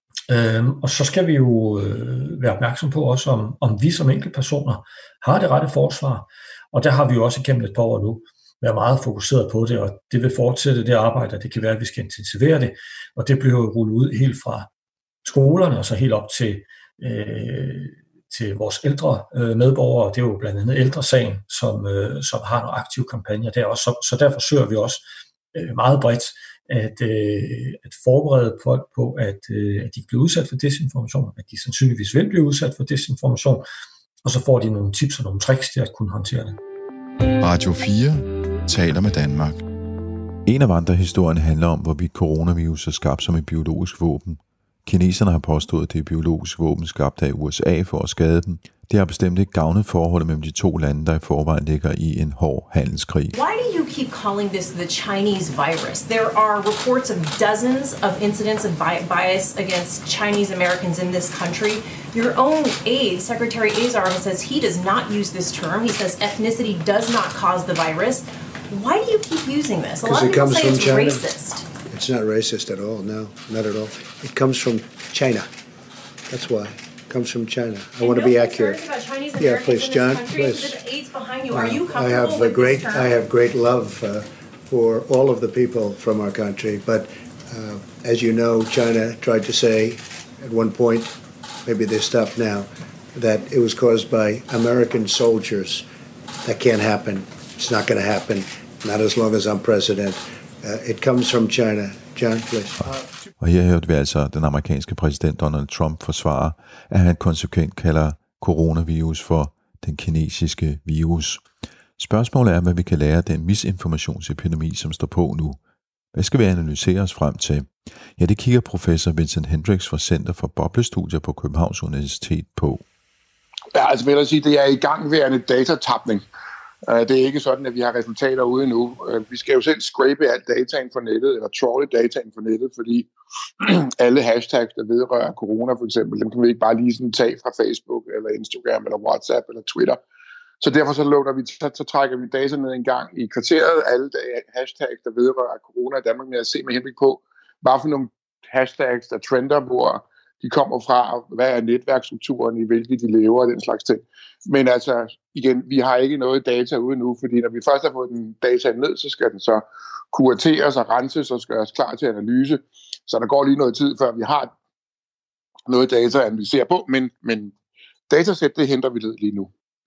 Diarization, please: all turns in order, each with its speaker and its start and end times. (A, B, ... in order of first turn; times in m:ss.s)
0:00.3-0:14.7 A
0:15.2-0:33.6 A
0:34.2-0:36.6 A
0:37.4-0:39.6 B
0:40.4-0:53.3 C
0:53.3-1:11.6 D
1:10.0-1:11.2 E
1:11.9-1:15.5 E
1:16.3-1:18.8 E
1:18.0-1:23.1 D
1:19.3-1:20.8 E
1:21.5-1:35.8 E
1:36.4-1:42.8 E
1:43.4-1:51.4 C
1:52.0-1:55.6 C
1:56.1-2:02.8 C
2:03.7-2:06.2 F
2:06.8-2:13.1 F
2:13.6-2:20.0 F
2:20.6-2:44.5 F
2:45.7-2:47.5 F
2:48.1-2:49.5 F